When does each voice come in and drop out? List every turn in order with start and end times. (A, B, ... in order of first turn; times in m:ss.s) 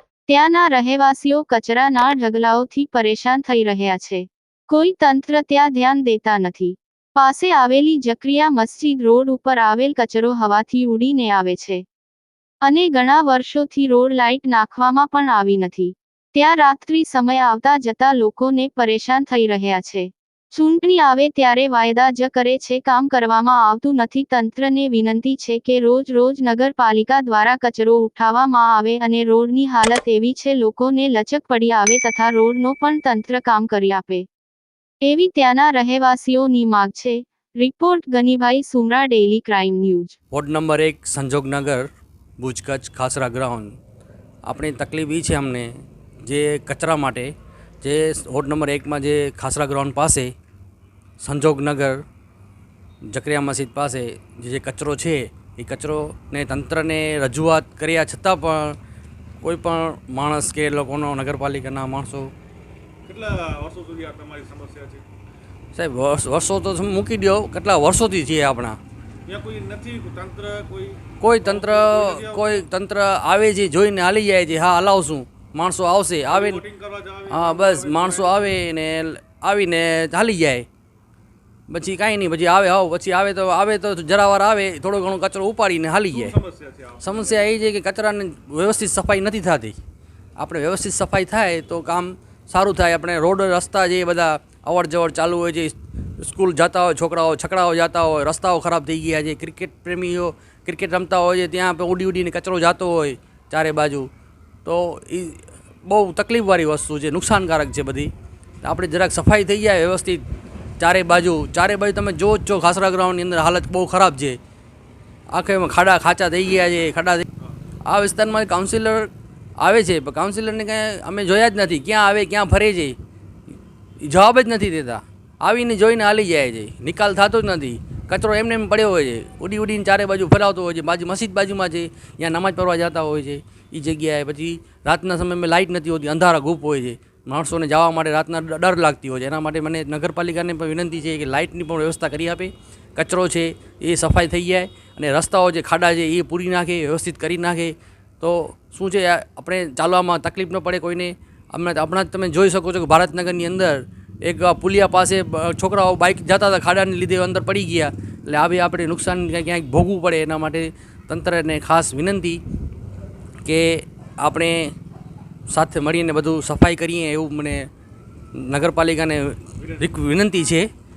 0:00.3-0:11.8 A
0:12.6-0:34.3 A
0:35.0-0:40.2 A
0:40.3-0:41.9 B
0:42.4-0:43.8 B
0:44.5-0:50.3 B
0:51.2-0:52.0 B
0:53.1-0:58.8 B
0:59.4-1:02.3 B
1:03.0-1:05.0 C
1:05.7-1:08.8 B
1:09.3-1:12.6 C
1:11.2-1:16.6 B
1:16.3-1:18.4 C
1:17.3-1:20.6 B
1:21.7-1:26.4 B
1:26.1-1:27.5 C
1:27.0-1:29.8 B
1:30.4-1:44.1 B
1:44.6-1:48.1 B
1:48.6-1:50.2 B
1:50.8-1:54.4 B
1:55.3-1:57.3 B
1:57.8-2:03.0 B
2:04.0-2:42.4 B
2:43.4-2:44.7 B
2:45.5-2:47.7 B
2:48.3-2:50.7 B
2:49.6-2:49.9 C